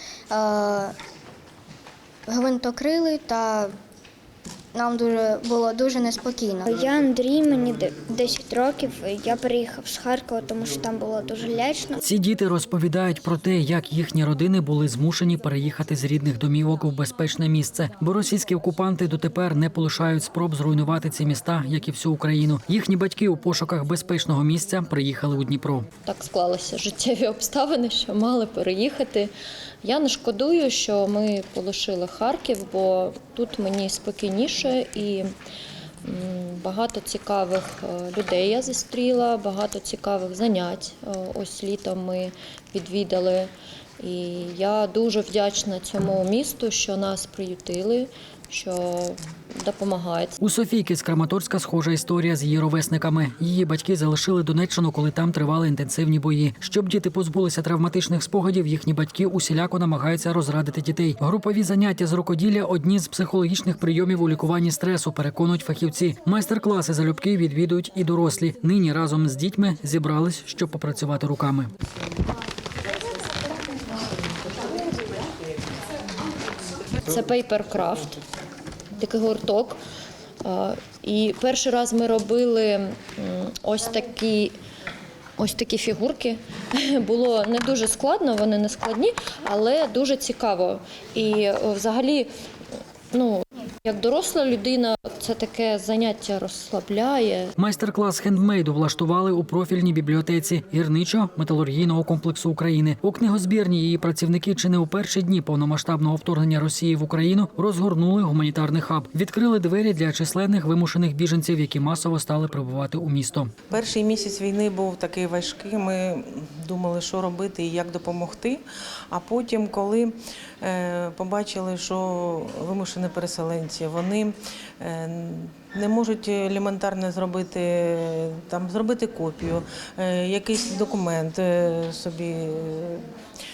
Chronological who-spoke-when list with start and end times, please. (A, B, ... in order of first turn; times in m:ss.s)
0:00.3-0:00.9 A
0:02.3-0:03.7 A
0:04.7-0:06.7 A
0:06.6-0:12.0 B
0:12.0-0:25.9 C
0:26.0-0:29.3 D
0:29.8-0:35.2 D
0:36.0-0:43.5 D
0:44.0-0:50.3 D
0:50.4-1:11.7 C
1:17.0-1:18.2 D
1:19.0-1:19.8 D
1:20.4-1:24.5 D
1:25.4-1:32.3 D
1:33.1-1:37.5 D
1:37.6-1:53.5 C
1:53.7-2:13.0 E